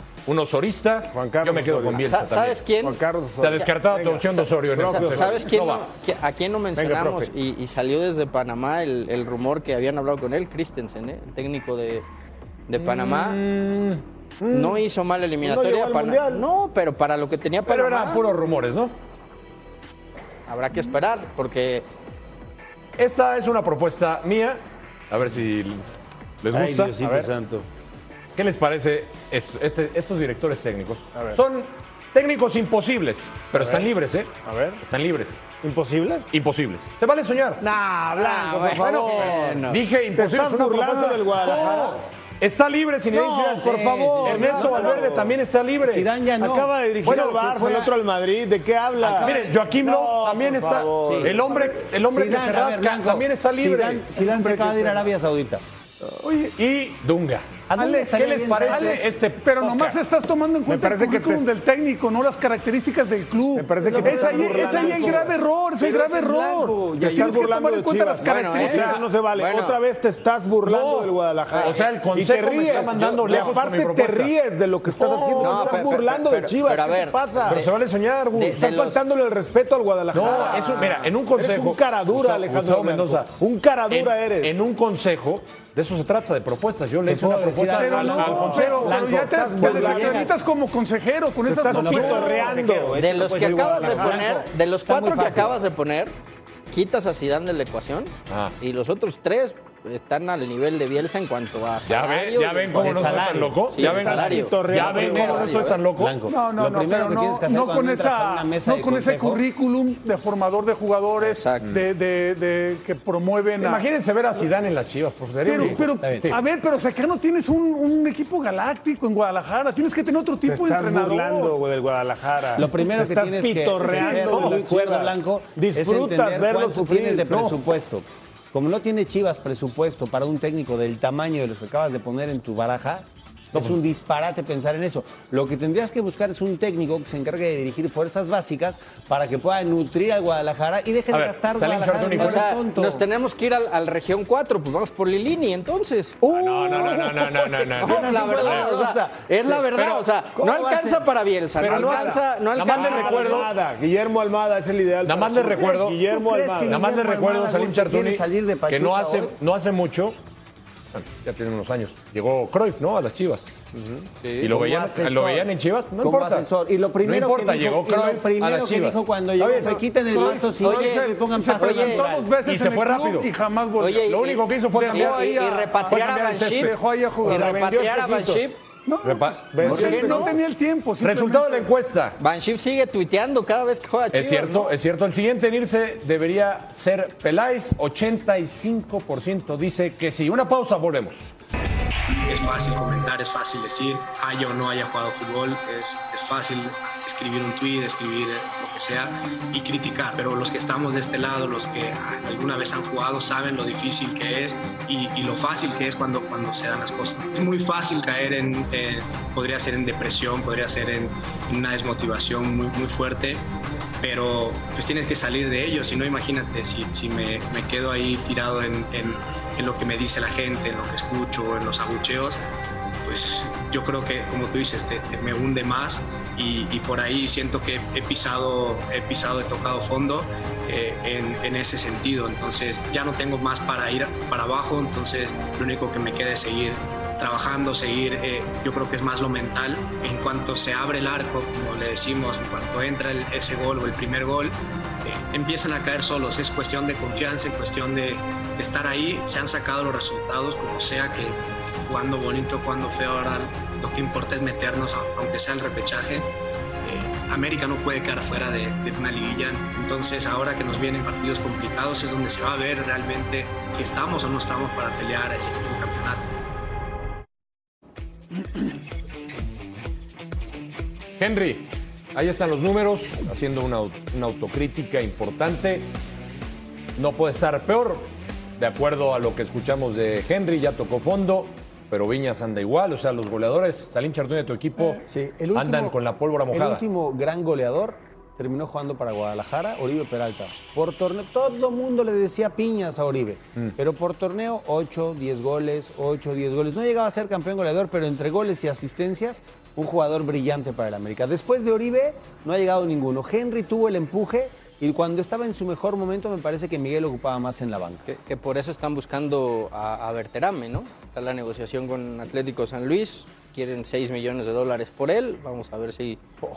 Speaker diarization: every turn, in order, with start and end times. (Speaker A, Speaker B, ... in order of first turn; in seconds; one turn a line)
Speaker A: 0.3-2.6
Speaker B: 1.1-2.1
Speaker C: 2.0-3.0
Speaker B: 2.8-5.5
Speaker A: 3.4-5.8
Speaker C: 4.4-12.1
Speaker B: 6.8-7.3
Speaker C: 12.7-13.4
Speaker A: 12.8-14.0
Speaker B: 14.4-14.8
Speaker C: 14.5-18.2
Speaker B: 15.4-16.4
Speaker A: 17.7-18.9
Speaker C: 20.5-21.9
Speaker A: 23.0-25.9
Speaker A: 26.4-27.0
Speaker D: 26.5-27.7
Speaker B: 27.0-27.3
Speaker A: 28.4-35.4
Speaker B: 33.5-33.9
Speaker B: 34.5-34.8
Speaker B: 35.6-36.3
Speaker A: 36.3-37.6
Speaker B: 37.6-39.6
Speaker C: 38.2-39.8
Speaker A: 38.8-46.1
Speaker B: 40.1-42.0
Speaker B: 43.1-45.4
Speaker D: 43.4-45.2
Speaker D: 45.8-46.7
Speaker B: 46.4-51.8
Speaker A: 47.0-47.9
Speaker A: 49.0-55.0
Speaker D: 51.1-51.4
Speaker D: 51.9-55.6
Speaker E: 56.2-56.5
Speaker A: 56.6-60.0
Speaker D: 57.7-59.0
Speaker E: 57.8-69.1
Speaker B: 60.7-61.5
Speaker B: 63.5-65.4
Speaker D: 63.8-67.5
Speaker B: 67.0-77.6
Speaker C: 68.2-69.8
Speaker A: 70.6-74.3
Speaker C: 71.5-71.9
Speaker C: 72.7-73.6
Speaker E: 75.0-75.7
Speaker C: 75.3-77.7
Speaker A: 77.5-78.6
Speaker C: 78.3-79.0
Speaker B: 78.5-84.6
Speaker A: 80.1-83.3
Speaker C: 80.2-81.1
Speaker A: 83.9-89.0
Speaker D: 87.1-90.3
Speaker E: 87.7-92.5
Speaker B: 88.2-90.4
Speaker B: 91.5-94.3
Speaker D: 91.7-95.6
Speaker C: 93.0-96.1
Speaker C: 96.7-105.8
Speaker A: 98.3-98.5
Speaker A: 101.9-106.2
Speaker D: 102.8-109.4
Speaker B: 103.8-105.7
Speaker E: 106.3-113.9
Speaker C: 111.2-111.7
Speaker A: 113.6-116.4
Speaker E: 115.4-121.6
Speaker D: 115.5-116.3
Speaker B: 120.5-127.5
Speaker D: 122.5-143.1
Speaker E: 123.9-124.4
Speaker A: 127.3-127.6
Speaker A: 133.5-133.8
Speaker A: 141.1-142.5
Speaker C: 142.2-146.2
Speaker D: 146.2-151.1
Speaker A: 146.3-148.7
Speaker C: 147.8-153.5
Speaker A: 149.8-150.1
Speaker A: 151.6-153.6
Speaker B: 151.6-156.8
Speaker A: 155.0-156.1
Speaker D: 155.7-159.4
Speaker A: 156.7-160.2
Speaker A: 160.9-163.5
Speaker C: 163.8-165.5
Speaker A: 164.4-166.5
Speaker D: 166.0-172.3
Speaker A: 167.0-169.7
Speaker C: 169.7-172.0
Speaker E: 170.1-174.1
Speaker A: 172.4-173.3
Speaker C: 173.8-178.6
Speaker A: 174.0-176.8
Speaker E: 174.7-177.5
Speaker B: 177.2-178.4
Speaker E: 178.9-181.7
Speaker A: 179.0-180.3
Speaker B: 179.5-180.4
Speaker C: 179.6-180.3
Speaker A: 181.0-182.2
Speaker C: 182.2-184.7
Speaker A: 184.1-191.3
Speaker F: 192.3-213.4
Speaker F: 214.0-222.4
Speaker F: 223.1-256.3
Speaker F: 256.8-266.3
Speaker A: 271.2-275.9
Speaker A: 277.0-285.0
Speaker D: 285.0-286.0
Speaker A: 285.5-286.9
Speaker D: 286.5-308.1
Speaker C: 308.1-316.2